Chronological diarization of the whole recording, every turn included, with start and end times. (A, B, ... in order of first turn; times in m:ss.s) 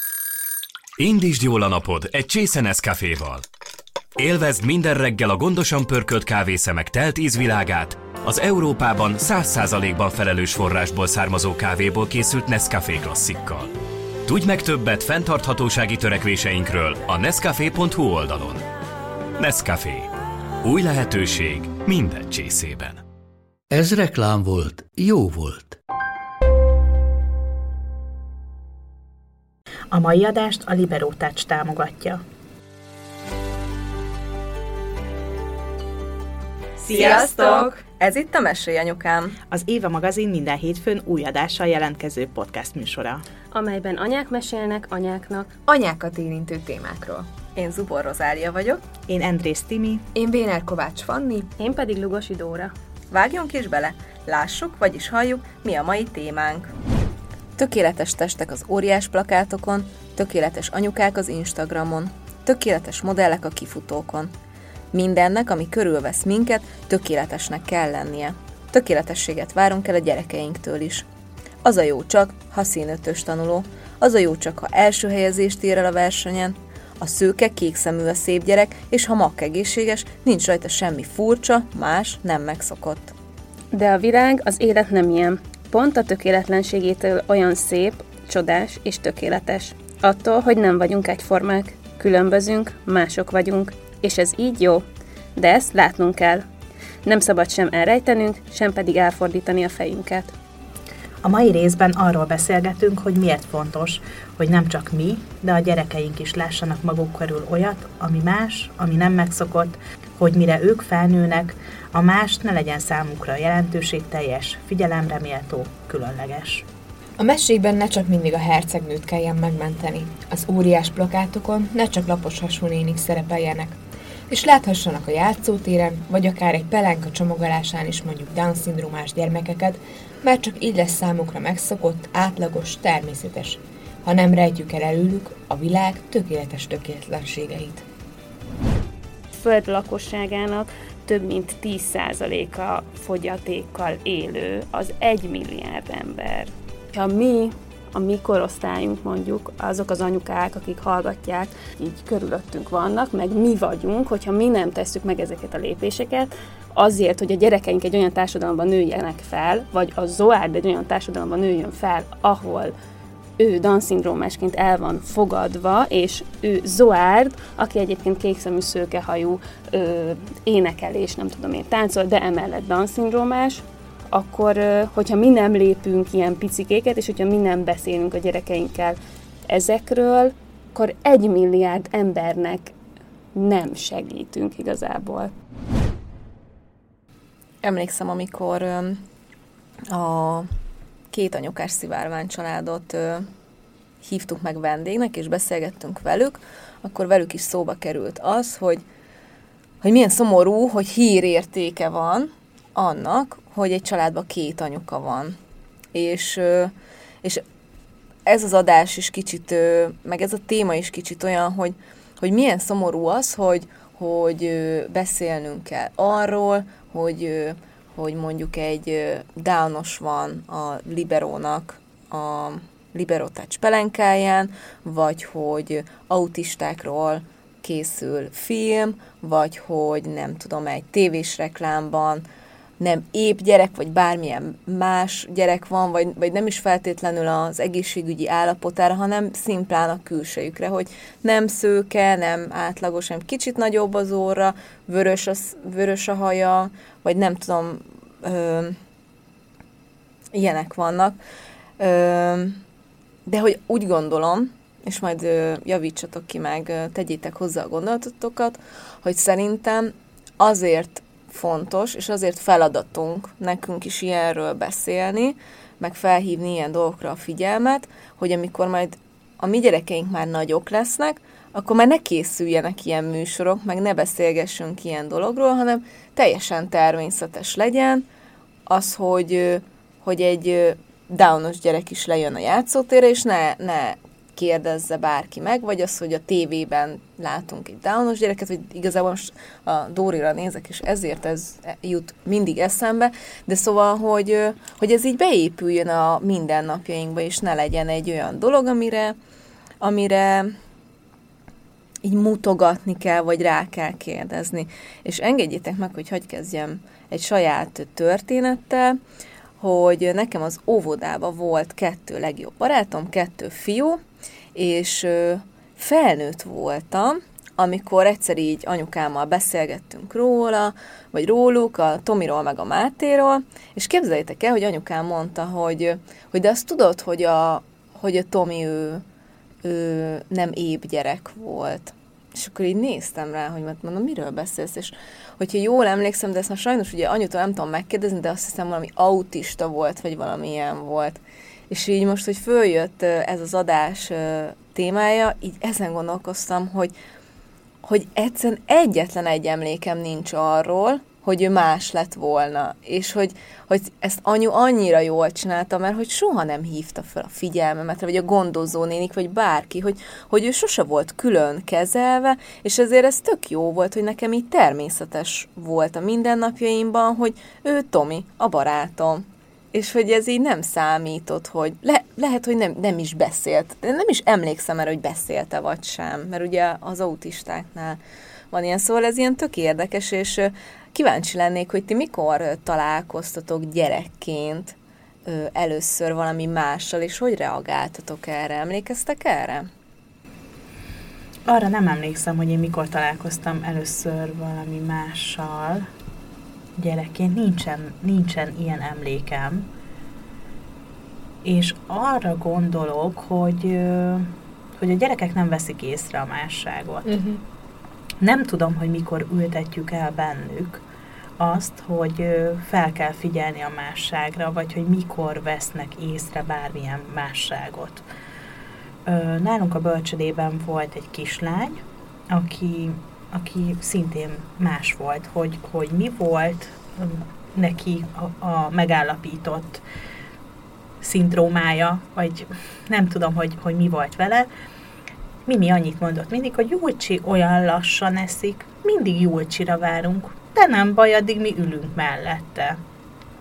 0:01.0-0:03.4 A
0:04.2-0:13.7 A
0:14.3-0:18.7 A
0:19.4-0:20.1 A
0:20.6-0:23.0 A
0:23.7-0:25.8 B
0:29.9-0:32.2 C
0:36.9-0:39.4 D
0:36.9-0:37.7 C
0:39.5-0:43.2 C
0:43.5-0:45.5 E
0:45.7-0:47.3 F
0:47.6-0:48.8 D
0:49.1-0:50.1 C
0:50.2-0:51.5 F
0:51.6-0:52.7 E
0:53.1-0:56.7 D
0:57.6-1:04.3 D
1:04.9-1:11.1 D
1:11.6-1:23.1 D
1:23.7-1:34.8 E
1:35.4-1:36.5 E
1:37.0-1:40.3 E
1:41.2-1:56.7 C
1:57.2-2:03.8 F
2:04.3-2:17.9 F
2:19.3-2:42.7 E
2:43.4-2:59.0 E
2:59.5-3:02.7 E
3:03.4-3:05.3 E
3:07.6-3:09.0 D
3:09.9-3:10.5 D
3:11.1-3:13.3 D
3:14.0-3:18.8 D
3:19.8-3:25.4 D
3:25.9-3:27.4 D
3:28.3-3:52.2 D
3:52.8-4:08.8 D
4:10.3-4:11.2 D
4:11.8-4:12.6 D
4:13.3-4:38.0 D
4:38.7-4:59.2 D
4:59.8-5:00.5 D
5:02.0-5:09.0 D
5:09.6-5:14.0 D
5:14.6-5:29.0 D
5:29.6-5:46.9 D
5:47.8-6:18.0 D
6:18.5-6:29.7 D
6:31.5-6:35.9 C
6:36.8-6:39.7 C
6:41.4-6:47.2 C
6:47.1-6:47.4 F
6:48.2-6:50.8 C
6:51.4-6:58.0 C
6:59.1-7:09.8 C
7:11.0-7:14.5 C
7:15.5-7:22.8 C